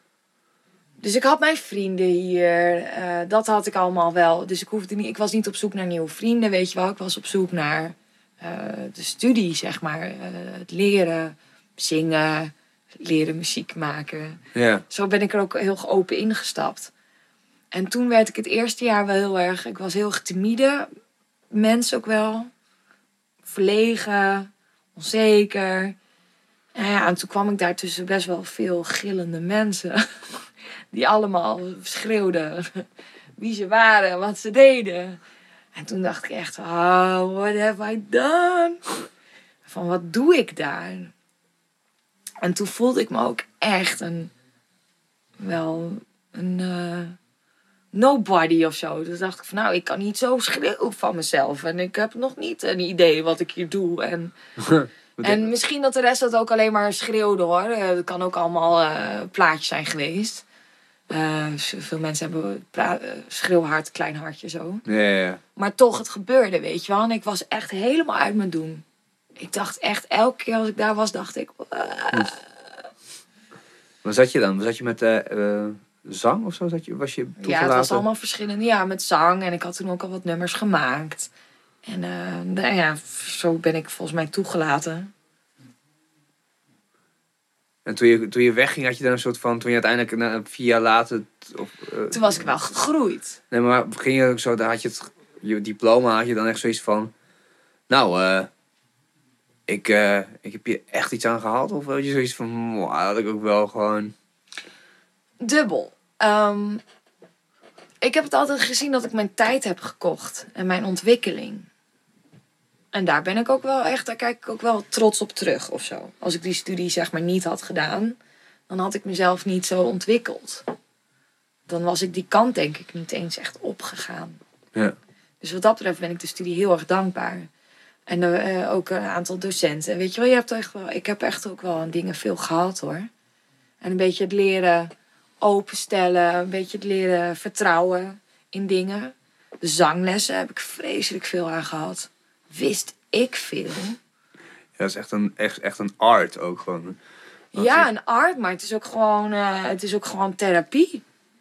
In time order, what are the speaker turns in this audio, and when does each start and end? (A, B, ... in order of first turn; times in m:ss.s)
0:01.0-0:16.9 A
0:14.5-0:14.8 B
0:17.7-0:20.9 A
0:21.5-0:22.5 A
0:23.5-0:26.0 A
0:26.8-0:32.8 A
0:33.4-0:35.2 A
0:35.8-0:39.0 A
0:39.7-0:41.1 A
0:42.4-0:44.3 A
0:45.4-0:47.2 A
0:47.9-0:54.3 A
0:54.6-0:55.5 B
0:55.2-1:00.4 A
1:01.1-1:04.8 A
1:04.9-1:05.4 B
1:05.6-1:08.8 A
1:09.4-1:12.6 A
1:14.0-1:18.0 B
1:17.4-1:21.3 A
1:21.8-1:25.1 A
1:27.8-1:32.6 B
1:32.1-1:33.4 A
1:33.5-1:37.1 B
1:37.9-1:38.5 B
1:39.7-1:44.1 B
1:45.4-1:46.8 A
1:48.0-1:51.7 A
1:52.9-1:58.2 A
1:58.7-2:00.6 A
2:01.7-2:04.4 A
2:05.4-2:07.5 A
2:08.1-2:13.1 A
2:13.8-2:24.0 A
2:24.8-2:27.0 B
2:27.5-2:31.0 A
2:27.6-2:27.9 B